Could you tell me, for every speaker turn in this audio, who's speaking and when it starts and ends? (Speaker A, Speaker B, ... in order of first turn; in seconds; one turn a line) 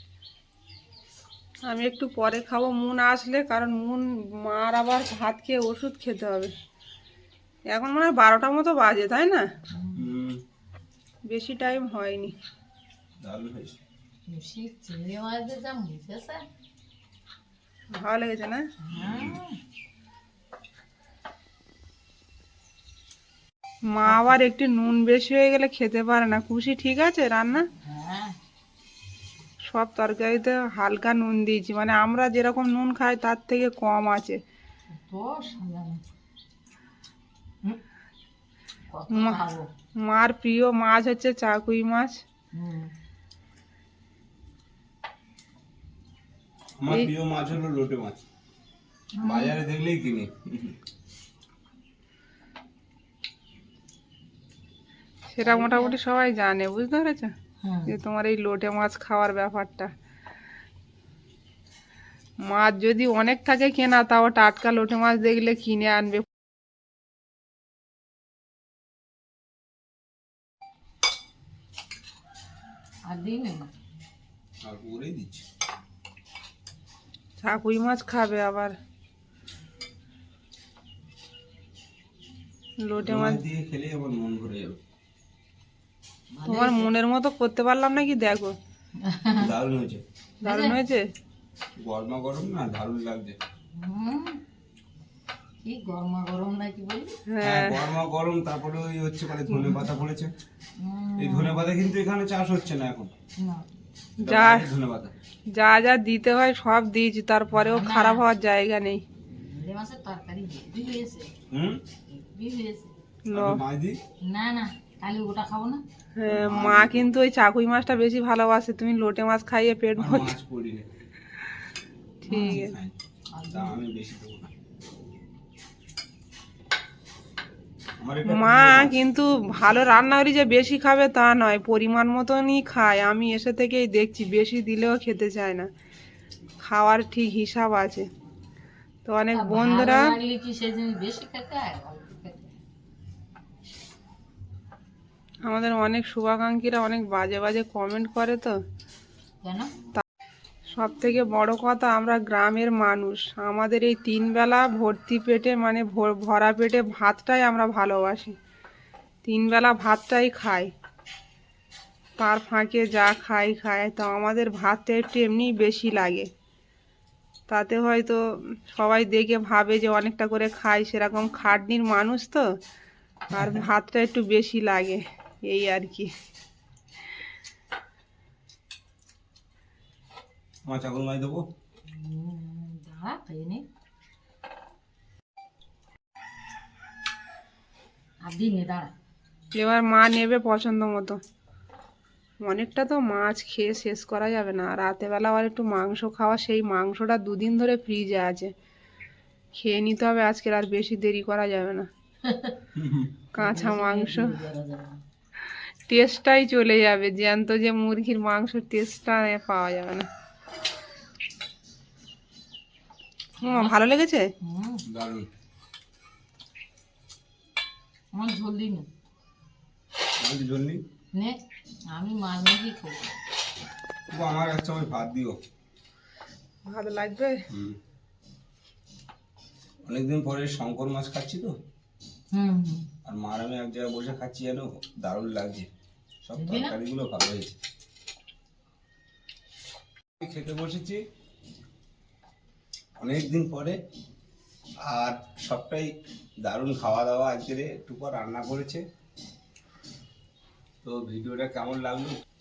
Speaker A: 1.7-6.5
Speaker A: 7.7-9.5
Speaker B: 9.7-10.1
Speaker C: 10.0-10.4
Speaker A: 11.3-12.3
Speaker C: 13.2-13.8
Speaker B: 14.3-16.4
Speaker A: 17.9-18.7
Speaker B: 18.8-19.6
Speaker C: 18.9-19.4
Speaker A: 23.9-27.7
Speaker B: 24.0-24.4
Speaker B: 27.8-28.4
Speaker A: 29.6-34.4
Speaker B: 34.9-36.0
Speaker B: 38.9-39.7
Speaker A: 40.0-42.2
Speaker B: 42.5-42.9
Speaker C: 46.8-48.2
Speaker B: 49.2-49.5
Speaker C: 49.2-50.8
Speaker A: 55.3-57.3
Speaker B: 55.4-56.0
Speaker B: 57.6-58.0
Speaker A: 57.9-59.9
Speaker A: 62.5-66.3
Speaker B: 73.1-73.7
Speaker C: 74.6-75.4
Speaker A: 77.4-78.8
Speaker A: 82.9-83.4
Speaker C: 83.0-84.8
Speaker B: 86.3-86.9
Speaker A: 86.4-88.5
Speaker B: 89.0-89.5
Speaker C: 89.4-90.0
Speaker B: 90.4-90.8
Speaker A: 90.4-91.1
Speaker C: 91.8-93.4
Speaker B: 93.8-94.4
Speaker B: 95.6-97.1
Speaker A: 97.3-97.8
Speaker C: 97.4-100.3
Speaker B: 100.8-101.6
Speaker C: 101.2-103.1
Speaker B: 103.4-103.6
Speaker A: 104.2-104.7
Speaker C: 104.2-105.1
Speaker A: 105.5-109.0
Speaker B: 107.5-108.2
Speaker B: 109.3-111.3
Speaker C: 111.5-111.8
Speaker B: 112.1-112.9
Speaker A: 113.3-113.6
Speaker C: 113.3-114.0
Speaker B: 114.2-115.8
Speaker A: 116.2-120.3
Speaker C: 116.3-117.1
Speaker C: 120.0-120.9
Speaker A: 122.2-122.7
Speaker B: 122.3-122.6
Speaker C: 122.4-123.0
Speaker B: 123.3-123.8
Speaker C: 123.5-124.5
Speaker C: 128.0-128.9
Speaker A: 128.2-135.7
Speaker A: 136.6-138.1
Speaker A: 139.1-140.1
Speaker B: 139.3-142.5
Speaker A: 145.4-148.6
Speaker B: 149.4-149.7
Speaker A: 150.7-158.3
Speaker A: 159.2-160.7
Speaker A: 162.2-166.3
Speaker A: 167.5-172.4
Speaker A: 173.3-176.1
Speaker C: 180.7-181.4
Speaker B: 181.9-183.6
Speaker B: 188.2-188.9
Speaker A: 189.5-191.2
Speaker A: 192.4-198.5
Speaker A: 199.5-201.9
Speaker B: 202.2-202.6
Speaker C: 202.7-203.1
Speaker A: 203.4-204.4
Speaker B: 203.4-205.0
Speaker A: 205.9-210.1
Speaker B: 213.4-213.8
Speaker A: 213.4-214.3
Speaker B: 214.4-214.8
Speaker C: 214.8-215.3
Speaker B: 218.1-218.9
Speaker C: 220.2-220.8
Speaker B: 221.9-223.1
Speaker C: 224.1-225.4
Speaker A: 226.7-227.4
Speaker C: 227.5-227.8
Speaker C: 229.9-231.5
Speaker B: 232.3-232.9
Speaker C: 233.0-235.7
Speaker C: 236.2-237.5
Speaker B: 236.4-236.8
Speaker C: 240.2-241.0
Speaker C: 243.0-243.8
Speaker C: 244.8-245.9
Speaker C: 246.4-248.8
Speaker C: 250.8-252.2